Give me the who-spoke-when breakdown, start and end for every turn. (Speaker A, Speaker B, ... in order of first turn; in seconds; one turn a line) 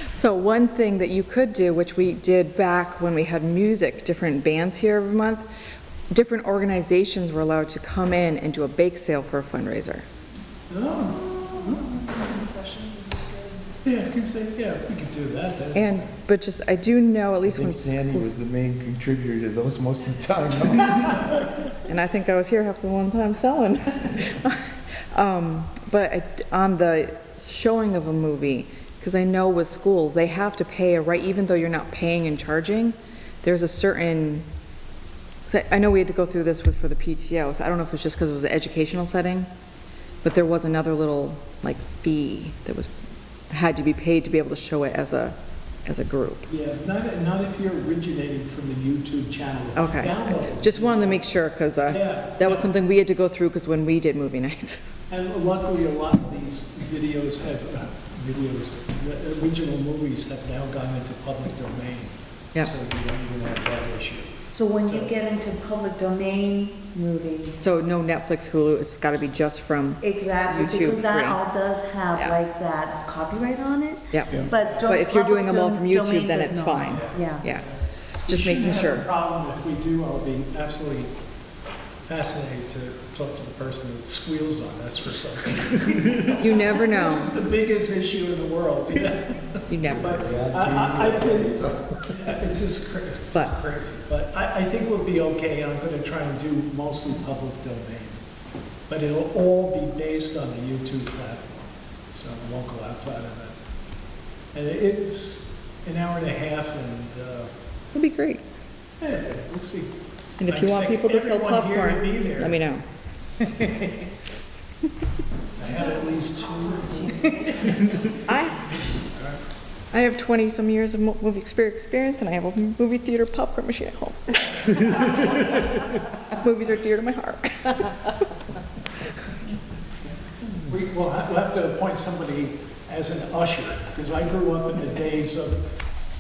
Speaker A: 0.1-5.5
Speaker A: 6.1-10.0
Speaker B: 10.7-11.9
Speaker C: 11.3-13.7
Speaker B: 13.8-16.1
Speaker A: 15.7-18.3
Speaker D: 17.5-21.4
Speaker A: 21.9-34.5
Speaker A: 35.5-39.5
Speaker A: 40.2-42.9
Speaker A: 43.5-46.5
Speaker B: 46.5-51.2
Speaker A: 49.8-54.8
Speaker B: 51.9-52.7
Speaker B: 55.1-65.1
Speaker C: 64.5-67.6
Speaker A: 67.5-71.4
Speaker C: 70.0-77.5
Speaker A: 74.1-77.7
Speaker B: 76.9-77.7
Speaker B: 78.3-81.1
Speaker A: 78.3-79.1
Speaker B: 82.1-89.4
Speaker A: 86.4-87.4
Speaker A: 89.7-90.2
Speaker D: 89.9-92.0
Speaker B: 89.9-91.6
Speaker B: 92.1-98.2
Speaker B: 98.9-103.5
Speaker B: 104.5-107.5
Speaker A: 107.9-108.4
Speaker B: 109.0-109.9
Speaker A: 110.4-112.8
Speaker B: 110.5-112.6
Speaker B: 113.4-114.1
Speaker B: 115.6-119.4
Speaker A: 118.2-118.6
Speaker A: 119.9-128.2
Speaker B: 130.5-135.6